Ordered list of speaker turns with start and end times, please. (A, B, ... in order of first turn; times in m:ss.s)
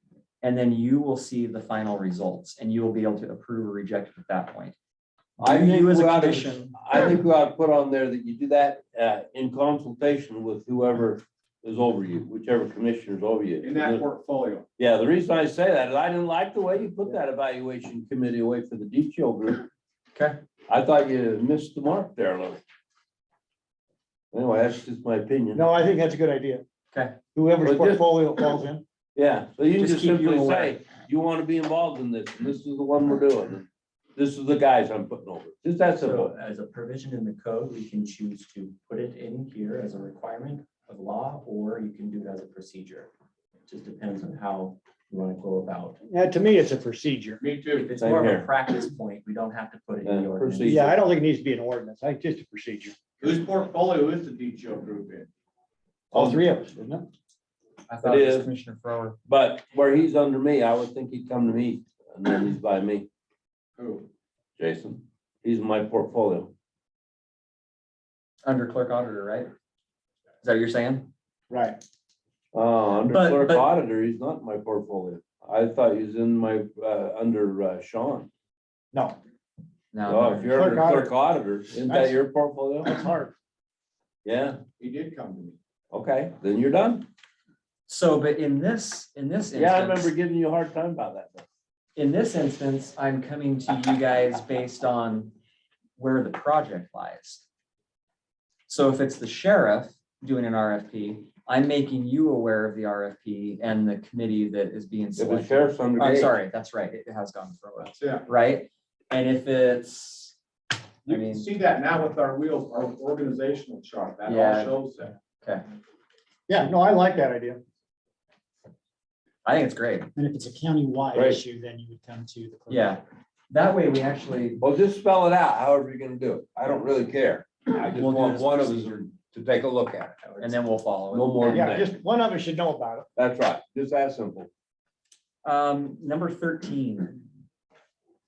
0:00.4-0:04.8 A
0:05.4-0:06.8 A
0:05.4-0:14.0 B
0:13.6-0:14.7 C
0:14.8-0:19.7 B
0:20.7-0:22.6 B
0:24.3-0:25.6 B
0:25.5-0:26.6 D
0:26.9-0:27.2 A
0:27.3-0:28.8 D
0:27.6-0:28.1 B
0:29.1-0:36.3 B
0:29.8-0:30.8 A
0:36.0-0:43.1 E
0:43.7-0:46.0 E
0:46.0-0:47.4 D
0:47.4-0:47.9 C
0:47.7-0:50.8 E
0:48.0-0:48.5 B
0:50.0-0:50.9 B
0:50.6-0:53.0 D
0:53.2-0:55.3 C
0:56.1-0:57.1 D
0:57.9-0:59.2 A
0:58.0-0:58.5 B
0:59.3-1:03.1 B
1:03.8-1:04.1 C
1:04.6-1:06.5 B
1:08.4-1:09.5 A
1:10.4-1:11.1 A
1:11.5-1:11.8 D
1:12.5-1:18.3 B
1:13.1-1:13.7 A
1:18.9-1:19.2 D
1:19.9-1:20.9 A
1:20.0-1:23.0 B
1:20.5-1:21.1 D
1:21.9-1:22.2 D
1:22.8-1:23.3 D
1:24.2-1:24.6 B
1:24.8-1:25.6 C
1:25.9-1:27.1 B
1:27.9-1:30.1 A
1:29.5-1:31.4 B
1:32.0-1:35.3 A
1:36.0-1:37.4 A
1:38.7-1:50.4 A
1:45.2-1:46.4 B
1:48.0-1:48.2 C
1:51.0-1:55.2 C
1:51.1-1:51.5 A
1:54.2-1:54.8 A
1:56.5-1:57.6 D
1:59.4-2:00.1 A
2:00.2-2:02.8 F
2:01.1-2:01.4 B
2:02.7-2:04.6 A
2:04.6-2:10.3 B
2:07.9-2:08.9 A
2:10.4-2:11.8 A
2:11.1-2:11.9 B
2:11.5-2:13.1 D
2:13.2-2:14.5 B
2:15.4-2:17.3 A